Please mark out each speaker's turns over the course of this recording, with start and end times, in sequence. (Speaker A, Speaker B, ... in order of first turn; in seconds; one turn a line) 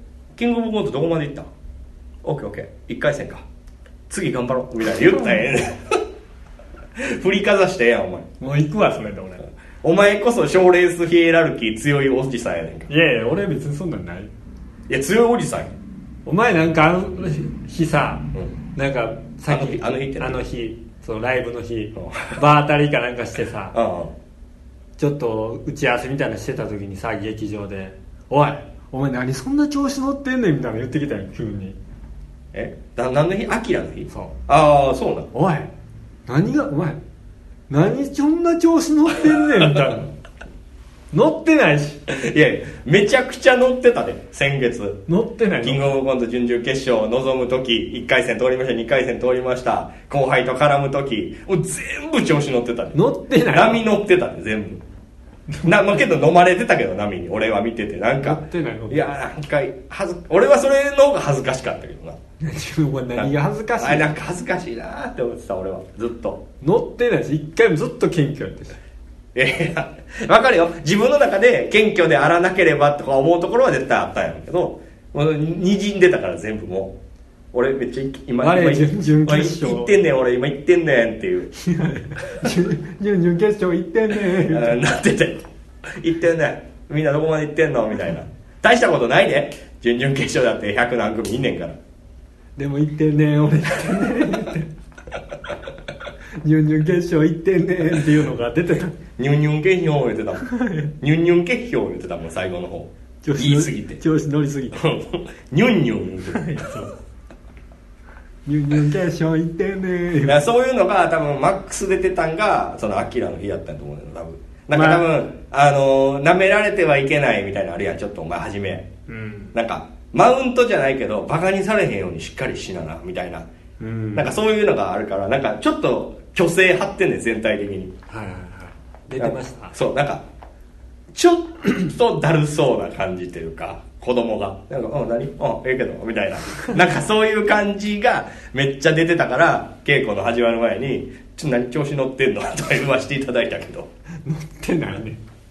Speaker A: 0.4-1.5
Speaker A: 2.2-3.5
Speaker A: 4.1-6.0
Speaker A: 7.0-8.3
Speaker B: 8.4-9.5
Speaker A: 9.8-12.9
Speaker B: 12.9-14.3
Speaker A: 14.9-15.7
Speaker B: 16.3-23.8
Speaker A: 19.5-20.4
Speaker A: 22.0-22.4
Speaker A: 23.7-24.1
Speaker B: 25.0-31.8
Speaker A: 32.5-35.3
Speaker B: 34.1-34.4
Speaker B: 35.3-35.7
Speaker B: 36.3-37.0
Speaker B: 37.7-40.1
Speaker B: 41.1-42.0
Speaker A: 42.1-45.0
Speaker B: 45.1-45.9
Speaker A: 45.6-54.8
Speaker B: 52.9-53.8
Speaker A: 55.6-62.2
Speaker B: 58.2-59.1
Speaker B: 62.4-64.1
Speaker A: 63.1-66.4
Speaker B: 66.6-68.8
Speaker A: 69.3-77.0
Speaker A: 77.5-81.5
Speaker B: 78.4-80.0
Speaker B: 81.6-84.8
Speaker A: 84.3-91.8
Speaker B: 92.6-94.7
Speaker B: 96.4-99.0
Speaker A: 99.2-100.5
Speaker B: 100.4-100.9
Speaker A: 101.0-104.0
Speaker B: 103.2-104.8
Speaker A: 104.8-106.5
Speaker B: 106.3-106.9
Speaker B: 108.5-110.4
Speaker A: 110.2-118.9
Speaker B: 114.7-115.0
Speaker B: 119.1-119.5
Speaker A: 119.5-123.5
Speaker B: 123.8-124.3
Speaker A: 124.1-127.9
Speaker B: 128.1-129.8
Speaker A: 129.2-130.2
Speaker A: 131.1-143.9
Speaker B: 144.2-145.2